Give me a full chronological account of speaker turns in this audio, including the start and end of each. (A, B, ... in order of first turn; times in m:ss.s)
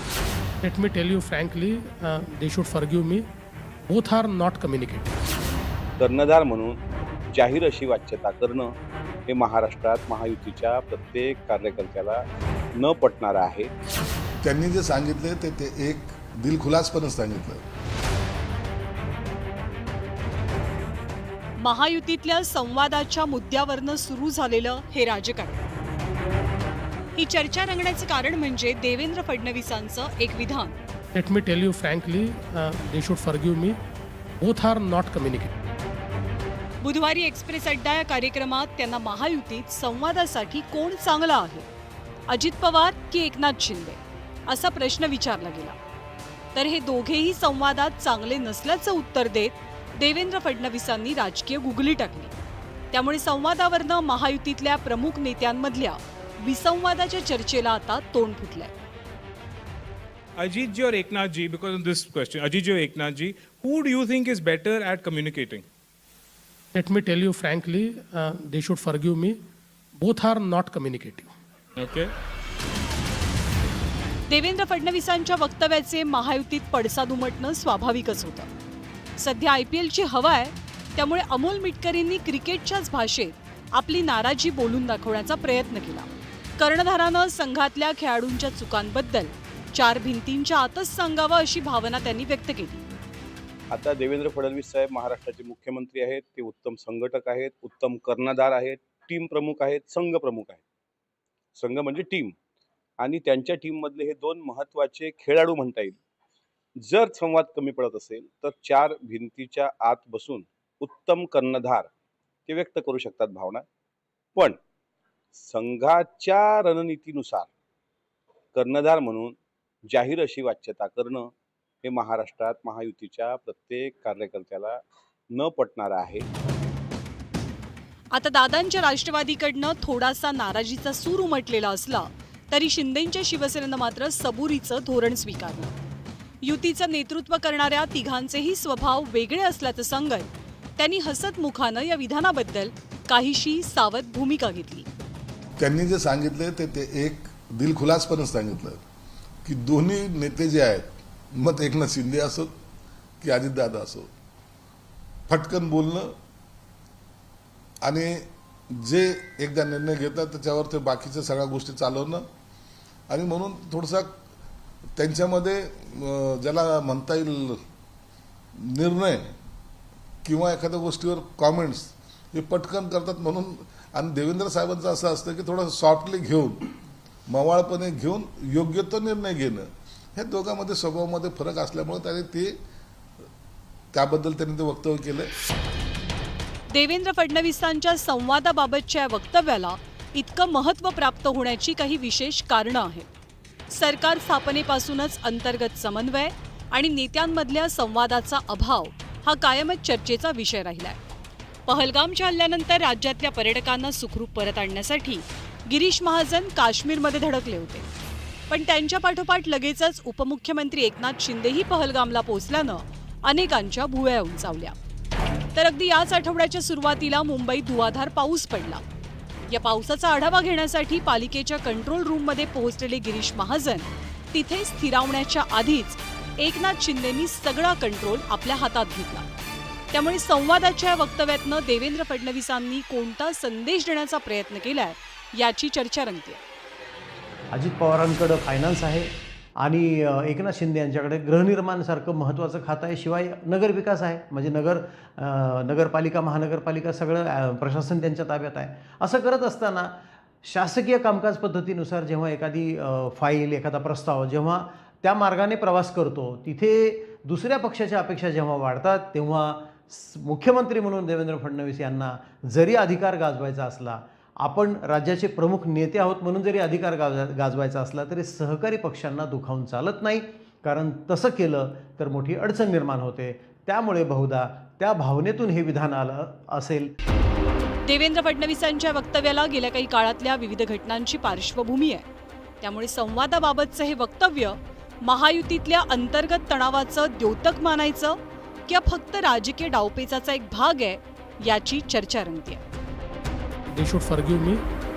0:00.6-0:03.2 A
0:03.9-0:05.1 A
0:06.0-0:06.8 B
0:07.3-0:08.7 B
0:09.3-0:12.2 B
0:12.8-0:13.8 B
0:14.4-0:17.6 C
0:21.6-0:25.6 D
0:27.2-0:30.8 D
0:31.1-0:33.8 A
0:34.4-0:35.5 A
0:36.8-0:41.7 D
0:42.3-0:45.8 D
0:46.6-0:52.3 D
0:52.9-0:58.7 D
1:00.4-1:05.7 E
1:06.7-1:09.4 A
1:10.0-1:11.3 A
1:11.8-1:12.1 E
1:14.3-1:18.5 D
1:19.2-1:32.8 D
1:33.7-1:40.6 B
1:41.6-1:42.4 B
1:43.0-1:46.0 B
1:46.8-1:51.9 B
1:52.5-1:53.6 B
1:55.3-1:57.5 B
1:58.5-1:59.4 B
1:59.9-2:01.3 B
2:01.8-2:04.8 B
2:05.3-2:06.3 B
2:08.1-2:15.8 D
2:16.4-2:24.9 D
2:25.6-2:28.8 C
2:29.4-2:32.5 C
2:33.2-2:34.1 C
2:35.3-2:36.1 C
2:37.8-2:38.3 C
2:38.8-2:42.3 C
2:43.1-2:44.1 C
2:45.0-2:47.6 C
2:48.6-2:49.4 C
2:50.2-2:56.7 C
2:57.3-3:02.6 C
3:03.9-3:05.3 C
3:06.7-3:13.1 D
3:13.7-3:21.0 D
3:21.7-3:27.9 D
3:28.5-3:34.8 D
3:35.6-3:38.8 D
3:39.5-3:49.2 D
3:49.9-3:56.4 D
3:57.5-4:36.9 F
4:37.8-4:42.0 D
4:42.6-4:52.6 D
4:53.7-4:54.6 A